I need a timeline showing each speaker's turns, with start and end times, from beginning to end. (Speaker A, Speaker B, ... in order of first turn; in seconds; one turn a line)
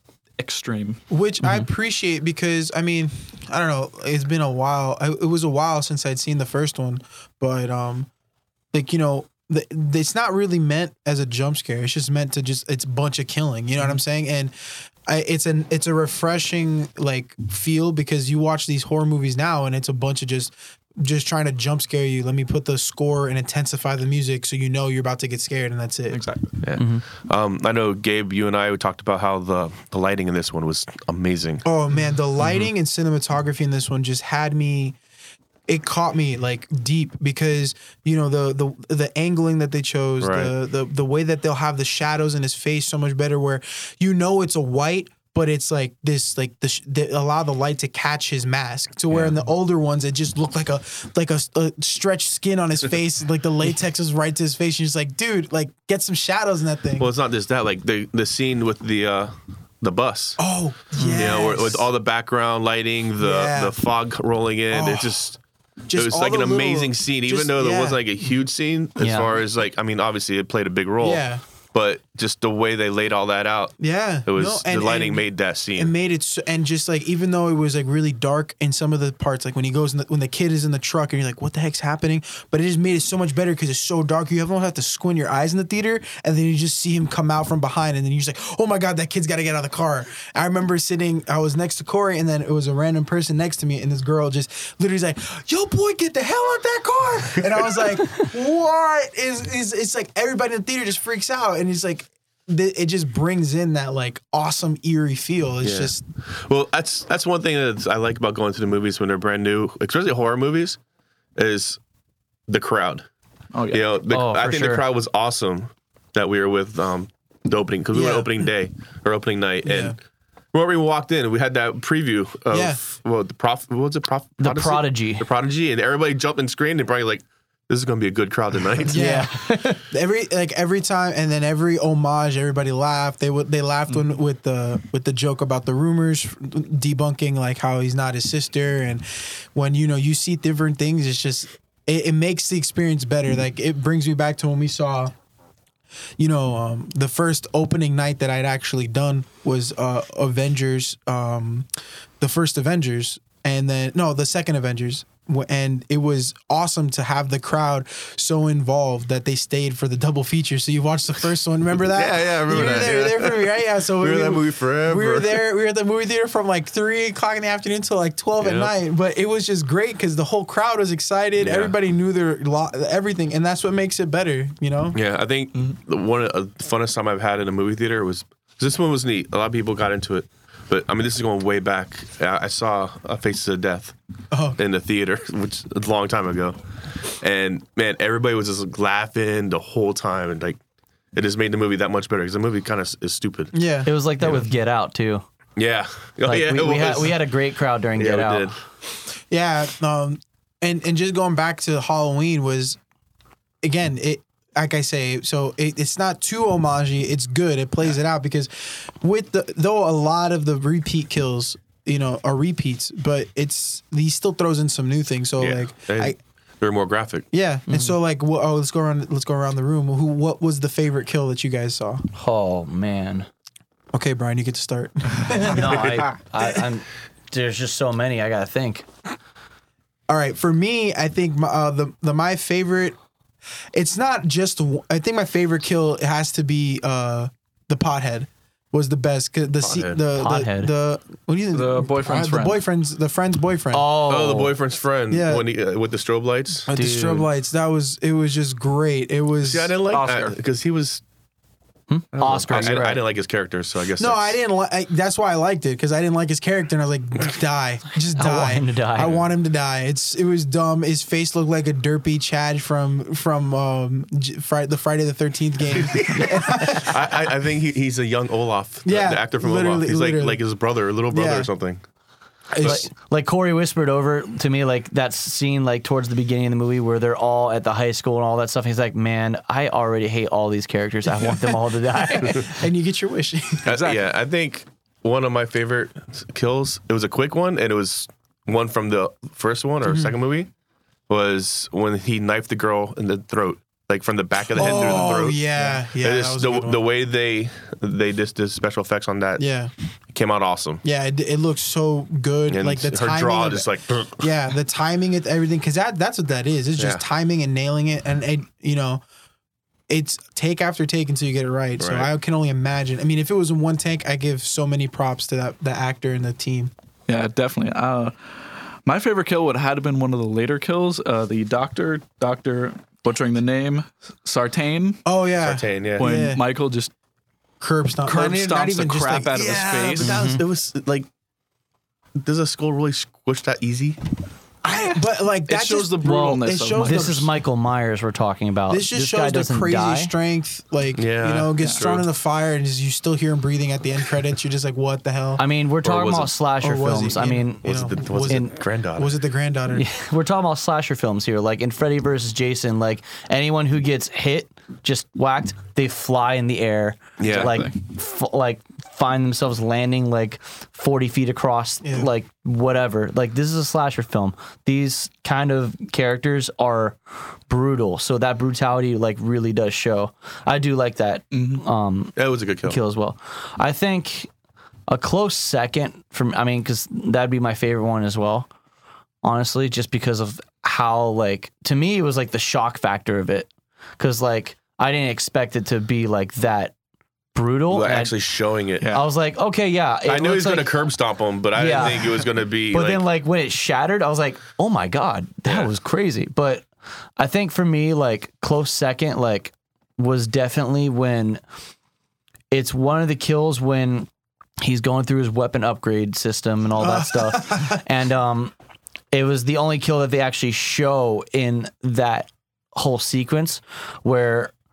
Speaker A: 0.4-1.0
Speaker B: 1.1-8.1
Speaker C: 1.4-1.7
Speaker B: 8.7-14.5
Speaker B: 15.1-26.2
Speaker A: 26.1-26.6
Speaker D: 26.6-31.6
Speaker C: 26.8-27.0
Speaker B: 31.6-35.0
Speaker B: 35.7-57.1
Speaker D: 40.2-40.5
Speaker D: 49.1-49.4
Speaker D: 57.0-60.4
Speaker B: 60.4-61.9
Speaker D: 61.1-65.4
Speaker B: 63.2-63.8
Speaker B: 64.7-65.3
Speaker B: 65.9-68.0
Speaker D: 65.9-73.8
Speaker C: 69.0-69.4
Speaker B: 71.0-71.4
Speaker B: 73.8-106.0
Speaker D: 74.3-75.9
Speaker D: 105.6-110.8
Speaker D: 111.4-111.8
Speaker D: 112.5-113.0
Speaker A: 113.5-114.0
Speaker D: 113.7-120.0
Speaker C: 114.1-114.9
Speaker B: 117.9-118.3
Speaker B: 119.7-120.0
Speaker D: 120.5-129.0
Speaker B: 122.5-122.8
Speaker C: 124.4-125.3
Speaker B: 128.9-145.1
Speaker C: 128.9-129.8
Speaker B: 146.2-151.7
Speaker B: 152.2-175.0
Speaker D: 161.8-165.4
Speaker D: 168.4-168.7
Speaker D: 171.4-171.7
Speaker D: 174.9-183.9
Speaker B: 184.3-184.6
Speaker D: 184.6-190.6
Speaker D: 191.1-193.5
Speaker B: 193.5-193.9
Speaker C: 193.9-195.2
Speaker D: 195.6-197.2
Speaker C: 196.2-198.5
Speaker D: 198.0-198.6
Speaker B: 199.3-202.8
Speaker B: 203.6-216.2
Speaker D: 215.4-217.3
Speaker B: 217.3-222.1
Speaker C: 217.7-218.0
Speaker C: 222.1-223.3
Speaker B: 223.9-226.7
Speaker C: 225.4-228.9
Speaker D: 225.6-226.2
Speaker B: 230.1-233.0
Speaker B: 233.7-243.8
Speaker D: 239.6-240.0
Speaker C: 240.2-240.7
Speaker A: 241.5-242.6
Speaker C: 243.7-244.6
Speaker D: 244.1-246.7
Speaker B: 245.1-245.4
Speaker B: 246.7-249.8
Speaker C: 246.7-247.3
Speaker D: 249.4-251.0
Speaker A: 249.9-250.4
Speaker C: 251.9-253.0
Speaker D: 252.1-254.4
Speaker B: 254.0-267.1
Speaker C: 258.1-259.2
Speaker D: 265.7-271.8
Speaker B: 268.9-270.4
Speaker B: 271.1-271.5
Speaker B: 272.5-272.8
Speaker D: 272.6-272.8
Speaker C: 272.6-282.6
Speaker B: 282.0-283.7
Speaker A: 283.7-284.1
Speaker D: 283.7-290.5
Speaker B: 289.9-290.1
Speaker D: 291.1-299.4
Speaker B: 294.5-296.8
Speaker B: 299.4-299.7
Speaker D: 300.1-300.8
Speaker B: 300.8-309.0
Speaker D: 302.5-304.3
Speaker D: 306.8-307.0
Speaker B: 309.9-316.7
Speaker D: 311.8-312.1
Speaker A: 317.1-325.0
Speaker B: 325.1-326.4
Speaker D: 325.4-326.1
Speaker A: 326.0-326.9
Speaker B: 327.6-330.4
Speaker A: 328.1-330.2
Speaker C: 330.0-330.4
Speaker D: 330.2-331.1
Speaker D: 332.2-334.0
Speaker B: 334.6-337.3
Speaker A: 335.5-337.3
Speaker C: 336.0-340.1
Speaker B: 338.7-345.4
Speaker D: 341.0-342.1
Speaker A: 341.6-341.8
Speaker C: 345.4-348.6
Speaker D: 345.8-346.3
Speaker B: 346.6-349.9
Speaker D: 347.6-349.1
Speaker C: 349.7-374.3
Speaker D: 357.2-357.6
Speaker A: 357.3-357.7
Speaker B: 361.8-362.1
Speaker A: 371.3-371.6
Speaker D: 372.2-372.8
Speaker C: 374.9-378.5
Speaker C: 379.2-386.7
Speaker C: 387.4-388.1
Speaker D: 387.7-388.9
Speaker A: 388.8-389.1
Speaker C: 388.9-390.8
Speaker D: 390.1-393.0
Speaker C: 391.5-401.4
Speaker C: 402.5-404.1
Speaker C: 404.6-408.5
Speaker B: 406.8-407.8
Speaker C: 409.1-414.5